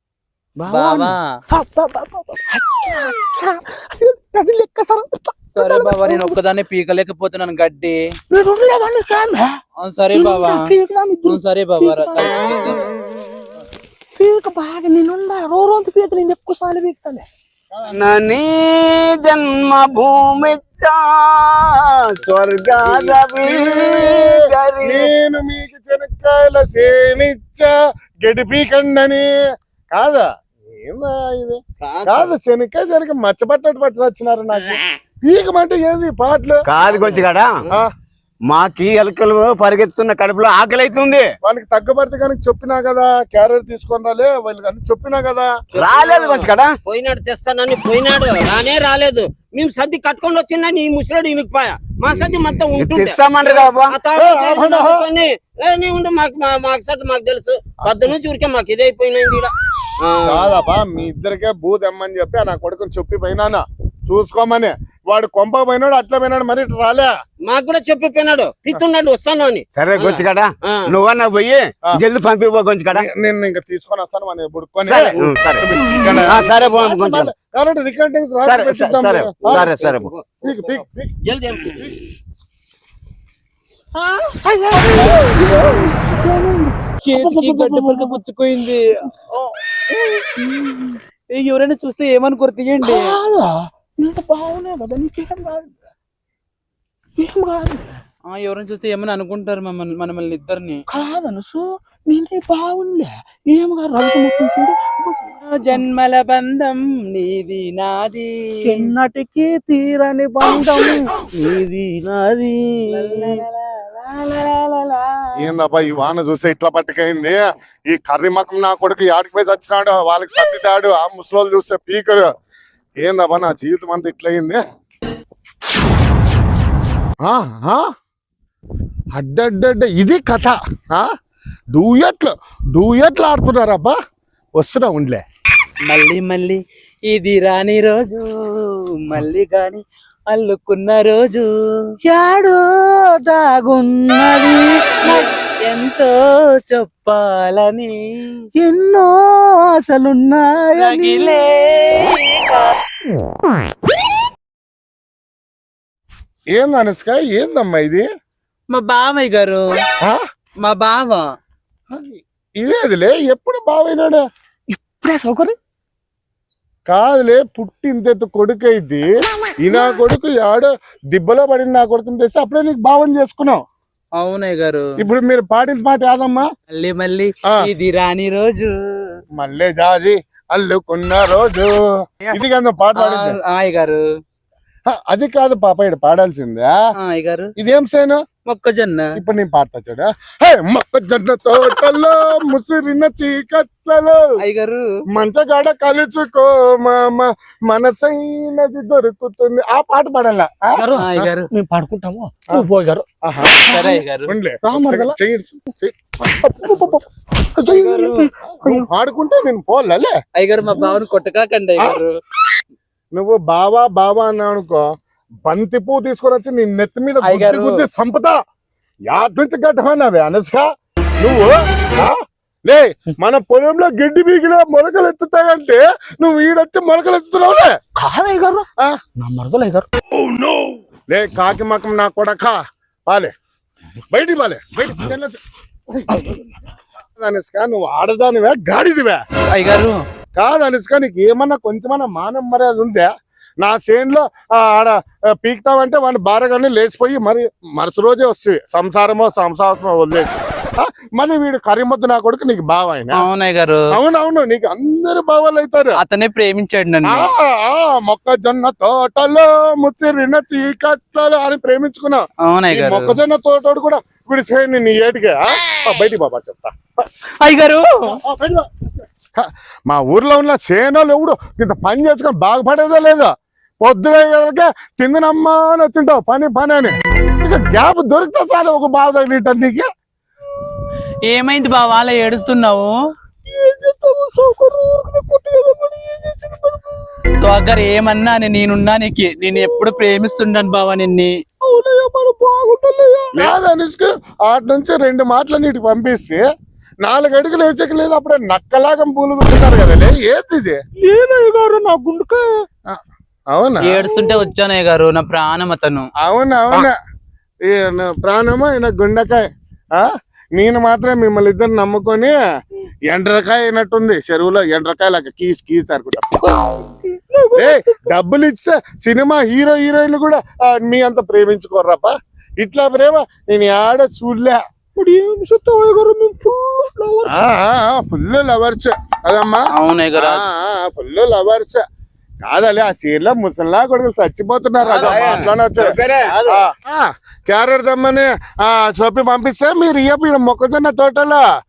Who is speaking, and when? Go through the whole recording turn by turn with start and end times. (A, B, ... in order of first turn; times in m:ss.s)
0:00.6-0:06.4 A
0:00.7-0:01.2 B
0:05.6-0:08.0 B
0:08.3-0:09.6 A
0:09.8-0:10.6 B
0:10.1-0:12.7 A
0:11.3-0:12.8 B
0:14.2-0:17.3 A
0:17.7-0:18.2 C
0:17.9-0:25.1 D
0:23.4-0:27.7 C
0:28.2-0:29.3 C
0:29.9-0:30.2 C
0:30.8-0:36.6 C
0:31.8-0:32.4 E
0:36.6-0:37.6 D
0:36.8-0:37.7 E
0:38.5-0:41.3 D
0:41.4-0:45.5 C
0:45.8-0:46.7 D
0:45.8-0:59.5 E
0:52.7-0:54.0 D
0:54.1-0:55.0 C
1:00.0-1:00.6 E
1:00.3-1:07.1 C
1:07.4-1:10.9 E
1:09.8-1:13.0 D
1:12.9-1:19.7 C
1:14.8-1:17.3 D
1:18.4-1:20.1 D
1:19.5-1:21.9 E
1:20.4-1:21.2 C
1:21.7-1:22.0 C
1:24.4-1:28.6 A
1:27.0-1:33.1 B
1:32.8-1:35.7 A
1:37.2-1:38.0 A
1:38.3-1:40.8 B
1:40.9-1:45.8 A
1:45.5-1:48.9 B
1:48.6-1:53.4 A
1:52.9-1:53.7 B
1:54.2-1:54.6 A
1:55.4-2:02.3 C
2:03.0-2:04.6 C
2:07.2-2:07.8 C
2:09.2-2:11.1 C
2:11.7-2:14.0 C
2:14.6-2:15.2 C
2:15.8-2:21.9 B
2:22.0-2:25.2 A
2:25.0-2:28.0 B
2:28.6-2:31.5 A
2:30.8-2:32.8 B
2:36.5-2:38.0 C
2:38.7-2:39.6 B
2:40.6-2:41.2 B
2:41.9-2:44.2 C
2:44.7-2:45.6 A
2:46.9-2:53.6 C
2:54.2-2:54.9 B
2:55.0-2:56.4 C
2:56.7-2:58.7 B
2:59.4-3:03.4 C
3:03.0-3:04.0 B
3:04.9-3:06.7 C
3:07.0-3:07.5 B
3:07.6-3:08.2 C
3:08.5-3:09.1 B
3:09.2-3:14.2 C
3:14.4-3:14.9 B
3:15.1-3:21.3 C
3:20.8-3:24.0 A
3:21.0-3:21.4 B
3:23.2-3:23.6 C
3:23.7-3:24.3 B
3:24.3-3:26.0 C
3:24.6-3:25.2 A
3:26.2-3:28.9 A
3:27.7-3:28.2 B
3:28.5-3:30.1 C
3:30.4-3:32.1 B
3:30.7-3:31.0 A
3:33.2-3:34.8 C
3:35.4-3:38.4 C
3:37.2-3:37.7 B
3:39.1-3:40.6 C
3:41.2-3:42.1 C
3:42.7-3:47.7 C
3:48.0-3:48.7 A
3:49.2-3:49.9 A
3:51.1-3:53.3 C
3:54.1-3:55.4 C
3:55.9-3:56.3 C
3:56.1-3:56.5 A
3:57.2-3:59.2 C
3:59.5-4:00.0 B
4:00.4-4:03.1 C
4:03.6-4:13.3 C
4:13.2-4:13.8 B
4:13.9-4:16.0 C
4:16.0-4:17.3 B
4:17.0-4:27.1 C
4:22.5-4:23.2 B
4:27.4-4:27.9 B
4:28.2-4:28.7 C
4:29.4-4:33.3 C
4:33.8-4:39.8 C
4:41.3-4:42.9 B
4:43.5-4:47.0 A
4:47.4-4:51.3 B
4:49.5-4:50.2 A
4:51.6-4:53.5 A
4:53.4-4:56.4 C
4:57.0-5:00.8 C
5:01.0-5:02.5 A
5:03.5-5:04.1 C
5:03.9-5:06.1 B
5:03.9-5:04.5 A
5:06.2-5:07.0 C
5:07.7-5:09.4 C
5:10.0-5:12.4 C
5:13.1-5:16.5 C
5:16.7-5:18.0 A
5:17.6-5:24.6 C
5:25.0-5:27.3 A
5:27.3-5:29.6 C
5:29.8-5:30.4 B
5:30.2-5:31.8 C
5:32.5-5:41.4 C
5:34.9-5:35.3 E
5:35.0-5:36.3 D
5:36.3-5:36.6 E